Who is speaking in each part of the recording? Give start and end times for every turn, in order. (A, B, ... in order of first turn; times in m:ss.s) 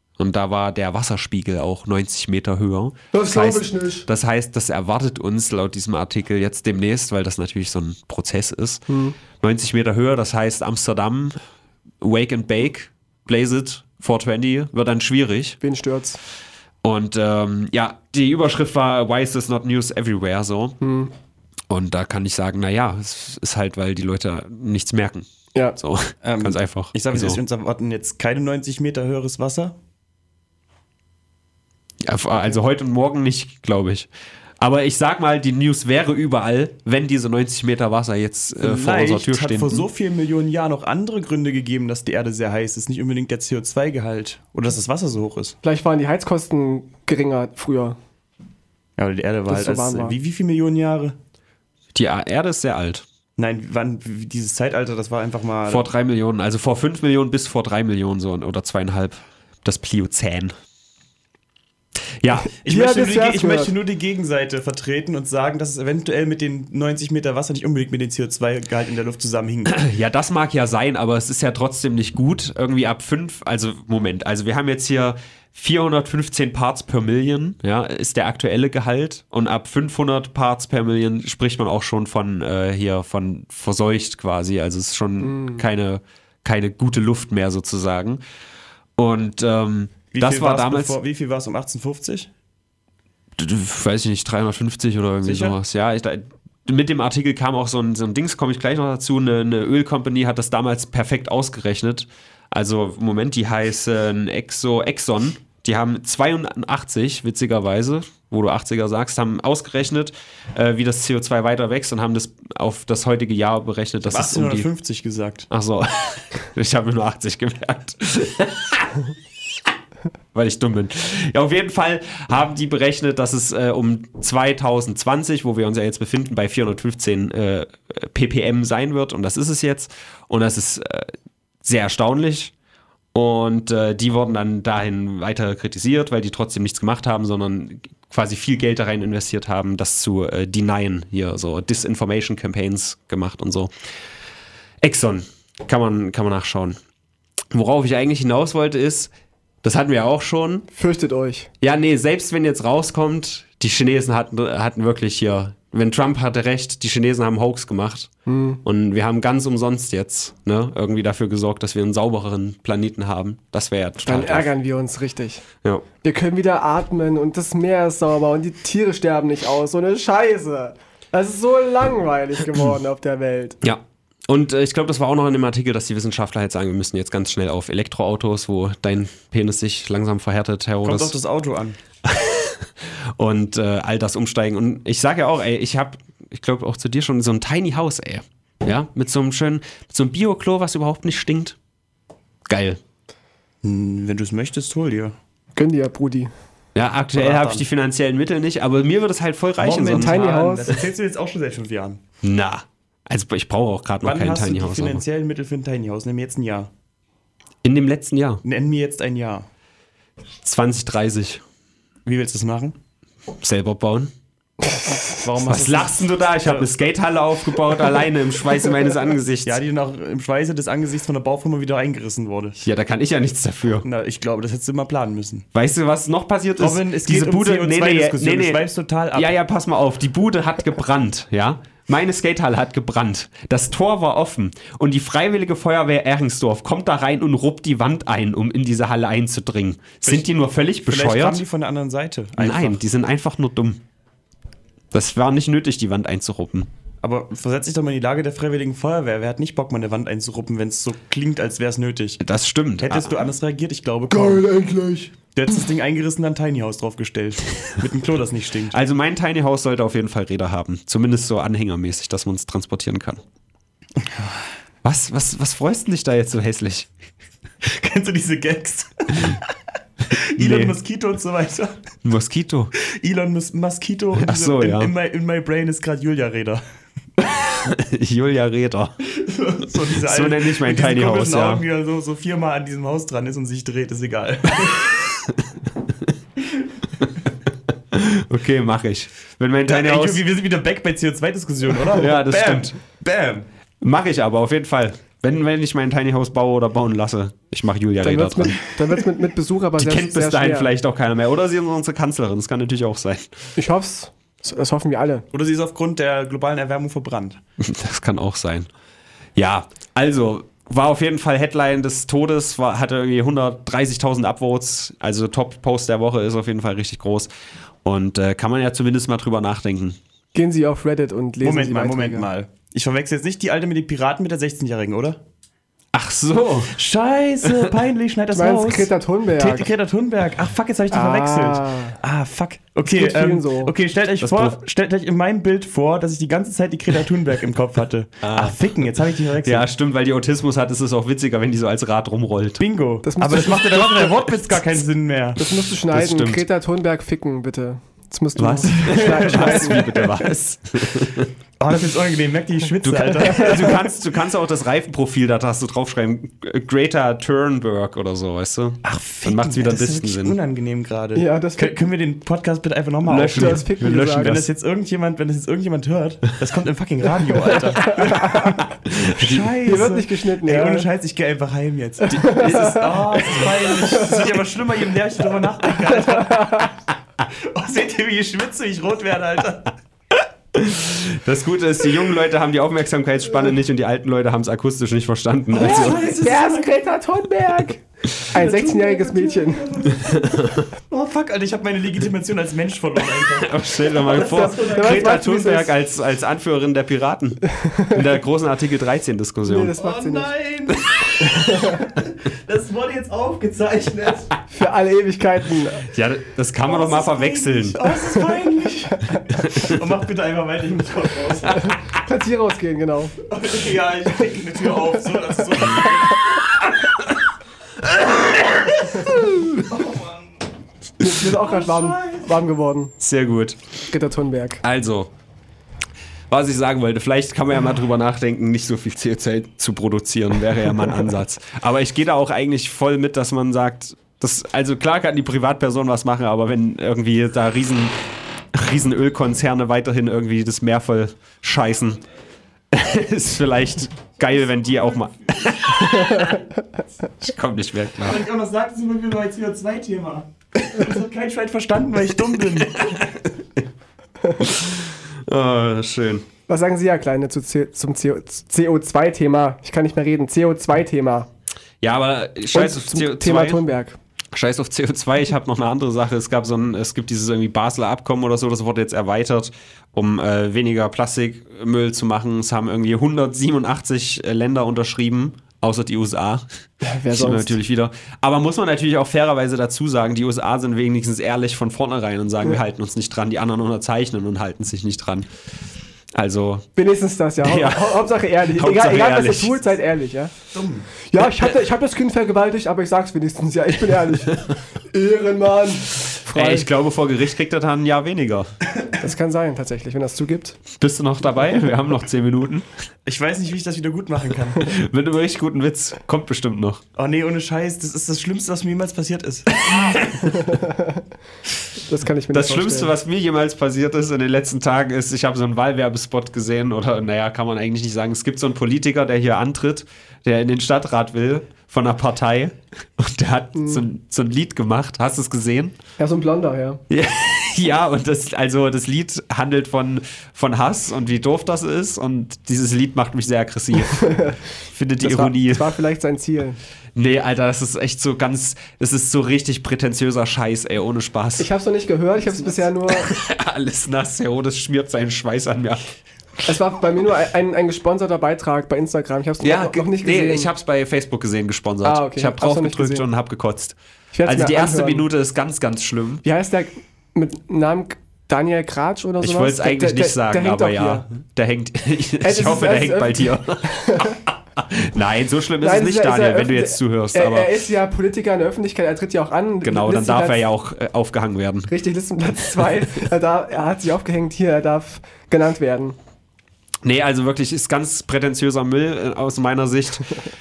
0:00.2-0:08.8 A
0:03.1-0:04.1 B
0:08.9-0:09.2 B
0:09.4-0:11.4 A
0:12.0-0:15.6 A
0:15.6-0:16.2 B
0:16.8-0:20.8 A
0:20.8-0:21.1 B
0:21.7-0:27.4 A
0:26.2-0:29.8 C
0:32.0-0:34.1 A
0:34.6-0:39.9 A
0:38.6-0:45.6 C
0:45.6-0:48.0 B
0:49.0-0:51.2 C
0:49.5-0:50.2 B
0:51.9-0:53.0 A
0:53.4-0:55.9 C
0:55.7-1:00.5 A
1:02.2-1:02.5 A
1:02.5-1:03.8 B
1:02.6-1:09.8 C
1:09.7-1:28.2 A
1:25.2-1:25.6 B
1:29.0-1:31.0 A
1:30.1-1:32.3 C
1:33.4-1:54.7 A
1:35.2-1:35.6 C
1:54.0-1:55.5 C
1:55.5-1:59.0 A
2:00.3-2:11.1 A
2:11.6-2:12.5 A
2:13.1-2:23.7 A
2:24.8-2:26.8 A
2:27.5-2:29.1 A
2:29.6-2:30.7 A
2:30.7-2:31.5 B
2:31.6-2:38.1 A
2:38.3-2:38.6 B
2:38.6-2:44.5 A
2:44.1-2:45.4 B
2:46.0-2:53.6 B
2:53.6-3:01.2 A
3:00.8-3:01.8 C
3:02.0-3:11.6 A
3:12.5-3:12.8 A
3:13.6-3:15.2 C
3:15.6-3:16.3 B
3:16.8-3:20.2 A
3:17.1-3:17.6 C
3:19.6-3:22.0 C
3:19.8-3:20.7 B
3:22.2-3:25.0 A
3:24.0-3:26.7 C
3:27.6-3:28.4 A
3:28.4-3:29.5 C
3:30.4-3:31.4 A
3:32.0-3:32.8 C
3:33.4-3:34.1 A
3:35.2-3:36.7 C
3:35.4-3:39.6 A
3:39.4-3:42.6 C
3:42.6-3:43.8 A
3:43.8-3:45.5 C
3:45.5-4:01.4 A
3:46.6-3:49.4 C
4:00.0-4:00.3 C
4:00.8-4:02.8 C
4:02.4-4:03.8 A
4:04.9-4:06.7 A
4:07.0-4:12.2 C
4:12.2-4:13.1 A
4:12.8-4:14.5 C
4:14.1-4:15.1 B
4:15.3-4:18.8 C
4:18.7-4:23.2 A
4:24.8-4:26.9 A
4:27.6-4:29.4 C
4:30.1-4:31.8 C
4:30.4-4:30.8 A
4:32.0-4:32.7 A
4:32.8-4:36.6 C
4:34.2-4:34.9 A
4:37.4-4:39.0 A
4:39.0-4:44.9 C
4:40.0-4:41.6 A
4:45.3-4:45.5 A
4:47.9-4:50.2 A
4:49.7-4:53.5 C
4:51.9-4:52.8 A
4:53.8-4:58.6 A
4:58.0-5:00.7 B
4:59.8-5:03.3 A
5:03.6-5:05.2 B
5:05.3-5:07.4 C
5:07.6-5:08.7 A
5:09.4-5:17.3 A
5:17.8-5:20.0 A
5:20.4-5:22.3 B
5:21.4-5:25.2 C
5:25.9-5:26.7 A
5:26.7-5:39.7 C
5:28.3-5:29.7 B
5:30.9-5:32.0 B
5:32.9-5:33.7 B
5:34.2-5:34.6 A
5:38.2-5:38.7 A
5:39.4-5:42.6 A
5:42.6-5:45.4 C
5:43.0-5:44.1 B
5:45.4-5:49.9 B
5:45.9-5:46.5 A
5:48.4-5:51.3 A
5:48.8-5:50.1 C
5:51.6-5:53.9 C
5:52.8-6:00.4 A
5:58.8-6:16.7 C
6:01.2-6:01.8 B
6:03.1-6:04.5 A
6:03.3-6:04.4 B
6:08.0-6:08.6 B
6:08.9-6:09.4 A
6:09.6-6:10.9 B
6:12.0-6:13.0 B
6:12.1-6:13.4 A
6:13.8-6:14.3 B
6:15.8-6:16.7 B
6:17.3-6:19.7 C
6:20.5-6:26.1 A
6:25.5-6:26.8 C
6:25.6-6:29.7 B
6:28.3-6:35.1 C
6:30.2-6:30.7 A
6:33.3-6:39.8 A
6:34.2-6:35.7 B
6:37.6-6:38.0 B
6:39.5-6:40.3 B
6:39.8-6:44.3 C
6:41.3-6:41.9 B
6:44.5-6:45.9 B
6:45.8-6:47.9 A
6:46.7-6:51.8 C
6:49.4-6:49.8 A
6:51.9-6:53.2 B
6:53.3-6:56.9 C
6:57.8-6:59.4 A
6:58.9-7:00.4 C
7:01.0-7:03.0 B
7:01.2-7:02.3 C
7:03.0-7:03.6 A
7:03.9-7:04.6 B
7:04.6-7:05.1 A
7:06.3-7:18.0 A
7:18.5-7:22.0 A
7:22.7-7:26.4 A
7:27.2-7:28.2 A
7:28.0-7:33.0 C
7:32.6-7:33.6 A
7:34.4-7:36.3 A
7:36.5-7:41.3 B
7:41.8-7:43.6 A
7:42.5-7:44.0 B
7:44.3-7:56.5 A
7:56.8-7:57.6 B
7:57.1-8:05.3 A
8:06.1-8:06.7 A
8:06.8-8:10.3 B
8:07.4-8:09.6 A
8:10.5-8:10.9 C
8:11.1-8:16.7 B
8:16.3-8:18.5 A
8:19.0-8:20.6 B
8:20.8-8:22.7 A
8:23.1-8:24.7 C
8:24.6-8:26.8 A
8:27.0-8:30.0 C
8:29.7-8:30.2 A
8:30.2-8:31.0 B
8:31.8-8:32.9 B
8:32.3-8:45.8 A
8:43.6-8:43.8 B
8:46.0-8:46.8 B
8:46.9-8:55.8 A
8:53.8-8:54.4 B
8:55.0-8:56.6 B
8:57.0-9:01.5 A
9:01.4-9:03.1 B
9:02.9-9:05.8 A
9:06.4-9:10.5 B
9:09.4-9:16.2 A
9:11.8-9:13.0 B
9:14.1-9:15.1 B
9:16.2-9:21.0 B
9:19.2-9:27.5 A
9:22.2-9:24.2 B
9:25.6-9:30.4 B
9:29.6-9:31.7 A
9:31.7-9:36.0 B
9:36.8-9:40.1 A